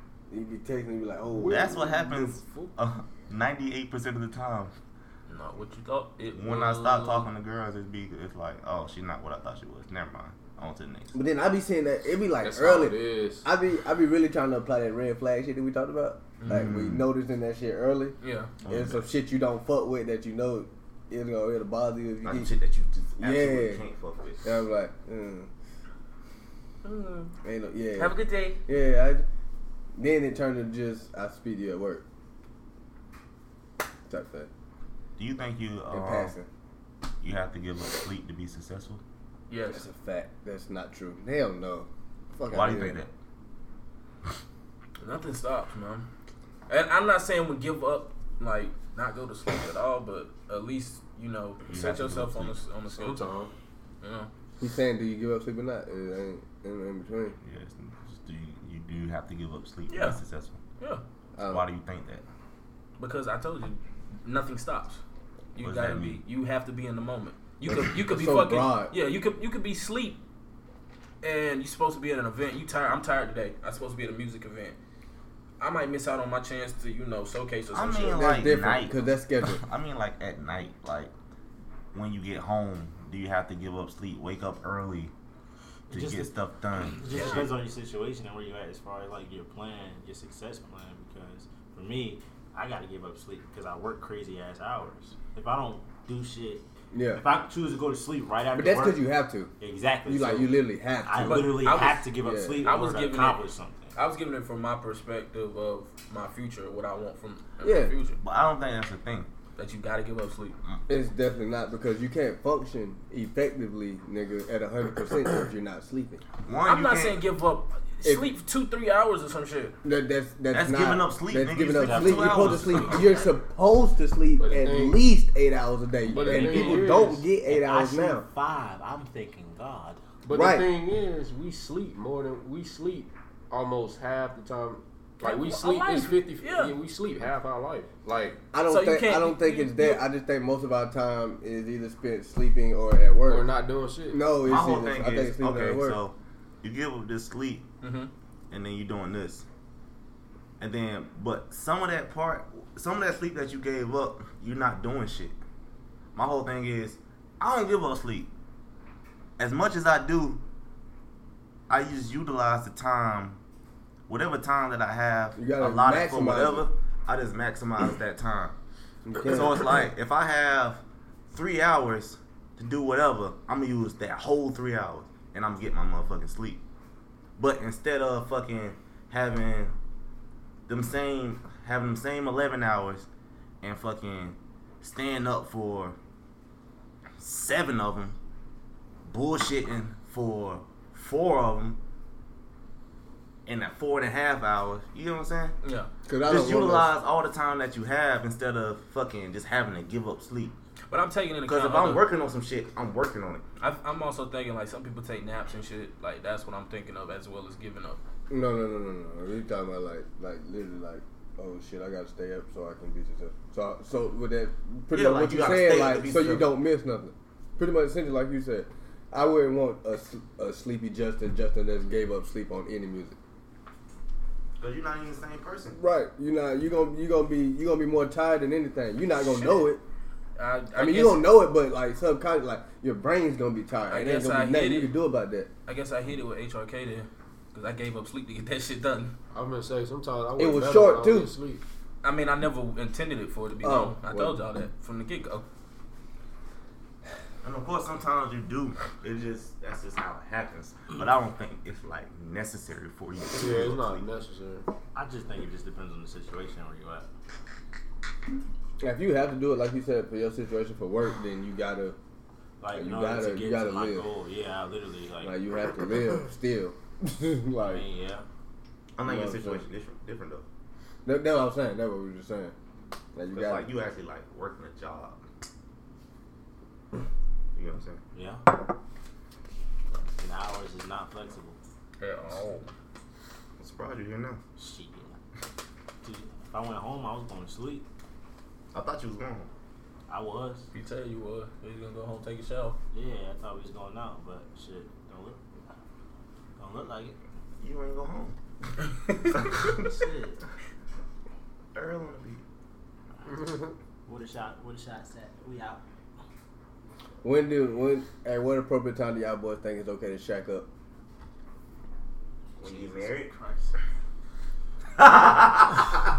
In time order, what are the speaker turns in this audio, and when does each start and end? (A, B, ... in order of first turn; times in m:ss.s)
0:00.3-0:02.0 A
0:01.4-0:02.7 B
0:01.5-0:04.7 C
0:05.3-0:07.3 D
0:06.3-0:11.2 C
0:11.1-0:22.5 A
0:12.4-0:13.5 B
0:16.4-0:16.7 D
0:16.4-0:17.0 C
0:18.2-0:18.5 D
0:18.6-0:19.1 C
0:22.2-0:24.5 C
0:23.2-0:23.8 A
0:24.4-0:25.5 A
0:26.8-0:27.3 D
0:27.4-0:29.2 A
0:28.0-0:28.6 D
0:30.0-0:32.0 A
0:34.1-0:34.5 A
0:35.2-0:36.4 C
0:35.9-0:36.5 A
0:37.2-0:39.0 C
0:39.5-0:39.8 D
0:39.7-0:43.0 A
0:42.5-0:43.1 C
0:45.0-0:46.1 D
0:46.7-0:53.3 D
0:51.7-0:52.6 C
0:52.9-0:53.5 B
0:54.0-0:54.3 D
0:54.6-0:57.4 A
0:57.4-1:00.6 C
0:59.9-1:00.2 D
1:01.4-1:01.6 A
1:01.5-1:02.2 C
1:03.0-1:05.0 D
1:05.6-1:10.2 D
1:05.6-1:06.2 C
1:07.7-1:08.9 A
1:11.2-1:14.8 D
1:15.6-1:18.3 D
1:17.7-1:21.1 C
1:18.1-1:19.6 A
1:21.9-1:25.1 C
1:25.9-1:26.3 E
1:25.9-1:27.5 C
1:26.9-1:39.0 E
1:36.9-1:37.2 A
1:38.5-1:39.5 A
1:39.6-1:43.9 E
1:40.1-1:42.7 A
1:41.2-1:42.1 D
1:42.6-1:48.2 D
1:47.6-1:47.9 A
1:48.2-1:49.3 C
1:49.6-1:50.6 D
1:50.9-1:56.2 A
1:56.4-1:57.2 C
1:56.6-1:59.8 D
1:59.8-2:08.2 A
2:00.5-2:03.1 C
2:01.8-2:02.8 E
2:04.4-2:05.0 B
2:06.1-2:07.3 B
2:06.3-2:06.8 E
2:07.4-2:10.0 E
2:10.2-2:18.4 B
2:10.3-2:10.7 A
2:15.2-2:16.8 D
2:18.5-2:23.5 A
2:18.7-2:20.1 D
2:23.3-2:24.3 B
2:24.1-2:26.0 A
2:24.4-2:27.7 C
2:27.8-2:28.1 D
2:28.5-2:29.4 C
2:30.6-2:35.4 C
2:36.2-2:38.3 C
2:39.4-2:40.4 C
2:41.7-2:43.4 C
2:44.1-2:48.6 C
2:45.4-2:46.7 A
2:49.0-2:49.8 A
2:49.3-2:56.6 C
2:57.4-2:59.8 C
3:00.7-3:03.1 C
3:03.6-3:06.0 C
3:07.2-3:08.2 C
3:09.1-3:11.8 C
3:13.5-3:15.6 C
3:15.6-3:15.9 D
3:16.1-3:16.9 A
3:16.2-3:20.6 C
3:20.9-3:22.1 D
3:21.5-3:23.4 C
3:23.6-3:28.0 D
3:28.3-3:43.2 A
3:34.9-3:36.5 C
3:44.6-3:45.8 C
3:45.8-3:49.8 A
3:50.4-3:51.2 D
3:50.8-3:55.5 A
3:53.9-3:54.9 D
3:55.7-3:59.1 D
3:59.3-4:01.6 B
4:00.4-4:01.3 A
4:02.0-4:05.4 D
4:03.6-4:04.4 A
4:07.4-4:14.1 C
4:13.3-4:14.7 B
4:15.0-4:17.1 E
4:18.8-4:22.0 A
4:22.6-4:25.4 E
4:22.7-4:24.1 A
4:25.2-4:27.8 A
4:27.6-4:28.2 E
4:29.0-4:30.5 C
4:29.0-4:29.6 A
4:31.0-4:32.5 A
4:33.1-4:33.7 A
4:33.3-4:35.3 C
4:37.5-4:38.0 C
4:38.1-4:38.4 E
4:40.2-4:41.6 E
4:42.0-4:42.7 D
4:43.6-4:44.4 C
4:44.6-4:45.2 E
4:46.0-4:47.9 E
4:48.7-4:49.5 C
4:50.1-4:50.7 E
4:50.7-4:52.8 D
4:52.9-4:55.4 E
4:56.6-4:57.2 E
4:57.6-4:58.4 C
4:59.3-4:59.9 C
4:59.6-5:00.4 E
5:01.7-5:02.4 C
5:03.2-5:05.8 E
5:07.2-5:10.7 A
5:12.6-5:13.3 C
5:12.6-5:13.7 E
5:15.0-5:15.9 C